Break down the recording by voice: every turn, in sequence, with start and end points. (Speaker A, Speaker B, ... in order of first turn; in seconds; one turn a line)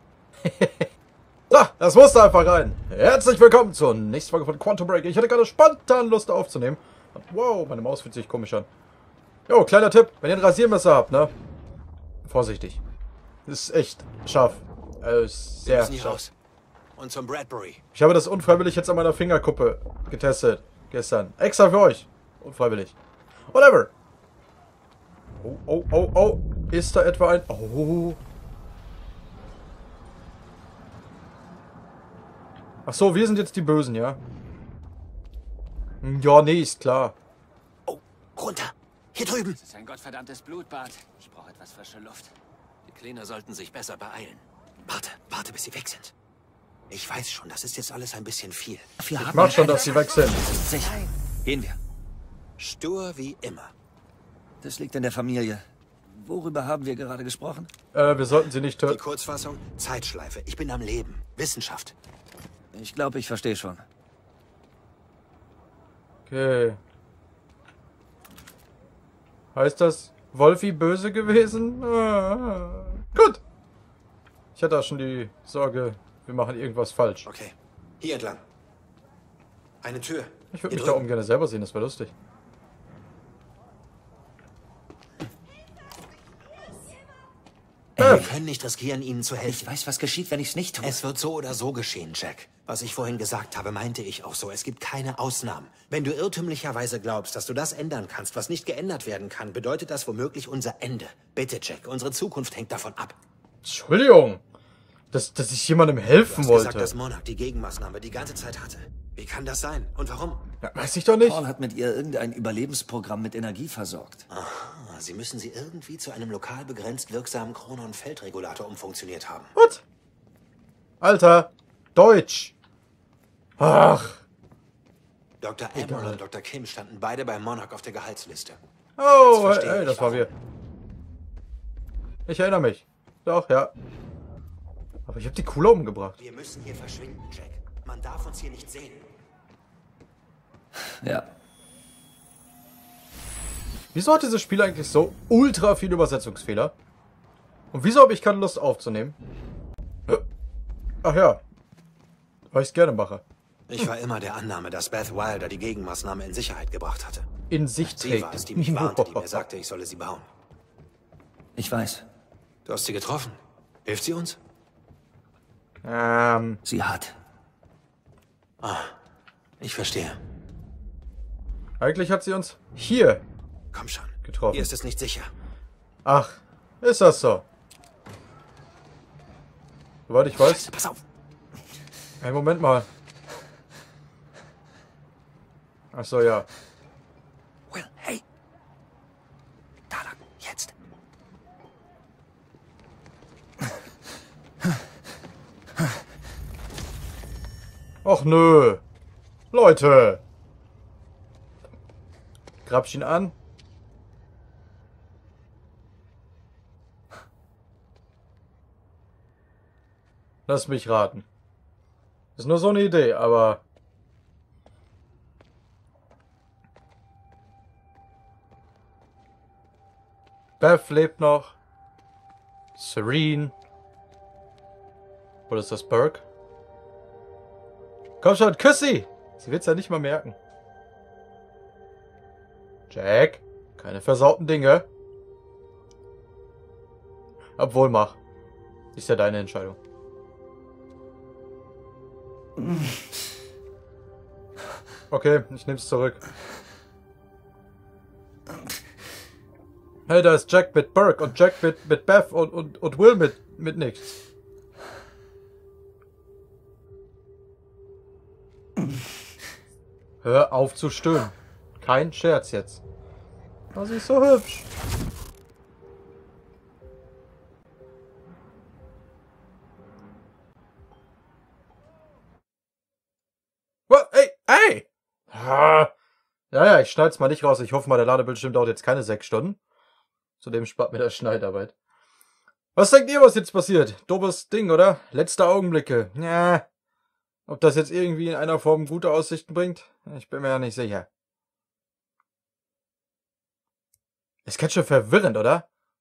Speaker A: 0.4-0.9
Speaker A: 1.5-8.7
Speaker A: 9.5-11.3
Speaker A: 12.2-12.8
Speaker A: 13.5-16.2
Speaker B: 15.6-16.3
Speaker B: 17.0-17.8
Speaker A: 17.9-23.0
Speaker A: 23.5-23.9
Speaker A: 25.4-28.2
Speaker A: 32.9-34.2
Speaker A: 36.0-37.1
Speaker B: 37.9-39.6
Speaker C: 39.6-42.3
Speaker B: 44.8-46.1
Speaker B: 46.9-49.7
Speaker C: 49.0-51.8
Speaker A: 49.2-50.5
Speaker B: 52.6-53.7
Speaker C: 54.6-57.7
Speaker A: 57.9-59.0
Speaker B: 58.9-62.0
Speaker C: 62.7-63.8
Speaker A: 66.3-66.8
Speaker A: 69.5-73.4
Speaker A: 74.5-77.3
Speaker B: 77.2-78.4
Speaker B: 79.8-81.1
Speaker A: 80.5-82.1
Speaker C: 88.0-88.4
Speaker B: 88.0-89.7
Speaker A: 88.0-88.3
Speaker C: 89.5-91.0
Speaker B: 90.8-103.2
Speaker A: 103.6-104.4
Speaker A: 105.1-106.9
Speaker B: 106.2-110.4
Speaker A: 110.6-111.4
Speaker C: 111.2-114.2
Speaker B: 114.3-119.5
Speaker A: 119.5-119.8
Speaker A: 121.0-122.5
Speaker A: 123.6-124.2
Speaker B: 125.4-128.6
Speaker A: 125.8-126.2
Speaker A: 129.0-130.3
Speaker B: 129.2-130.3
Speaker A: 132.2-133.7
Speaker A: 135.1-136.2
Speaker B: 136.2-139.1
Speaker C: 141.0-141.3
Speaker A: 143.9-146.7
Speaker A: 147.7-149.2
Speaker A: 151.0-151.4
Speaker A: 152.5-153.2
Speaker B: 153.7-157.2
Speaker A: 157.5-159.4
Speaker B: 157.8-160.2
Speaker C: 161.6-162.0
Speaker B: 162.7-164.4
Speaker A: 165.8-166.6
Speaker C: 166.7-167.2
Speaker B: 168.6-168.9
Speaker B: 169.6-170.2
Speaker A: 171.8-173.2
Speaker B: 173.7-175.3
Speaker A: 174.2-174.7
Speaker A: 176.0-177.4
Speaker A: 180.1-180.7
Speaker B: 180.3-181.0
Speaker A: 182.2-182.9
Speaker A: 185.9-186.5
Speaker B: 187.7-188.2
Speaker B: 190.2-190.7
Speaker A: 198.0-198.8
Speaker A: 199.5-200.2
Speaker A: 202.7-203.3
Speaker A: 210.5-211.2
Speaker A: 212.3-213.6
Speaker A: 220.6-221.5
Speaker A: 222.8-223.5
Speaker A: 225.5-226.2
Speaker A: 228.2-230.4
Speaker A: 232.9-234.8
Speaker A: 237.6-238.2
Speaker A: 238.9-239.8
Speaker A: 245.1-246.2
Speaker A: 250.1-254.1
Speaker A: 260.2-262.8
Speaker A: 263.7-264.7
Speaker A: 273.9-275.9
Speaker A: 276.5-279.6
Speaker A: 280.4-281.7
Speaker A: 282.7-286.6
Speaker A: 287.5-291.1
Speaker A: 294.4-295.6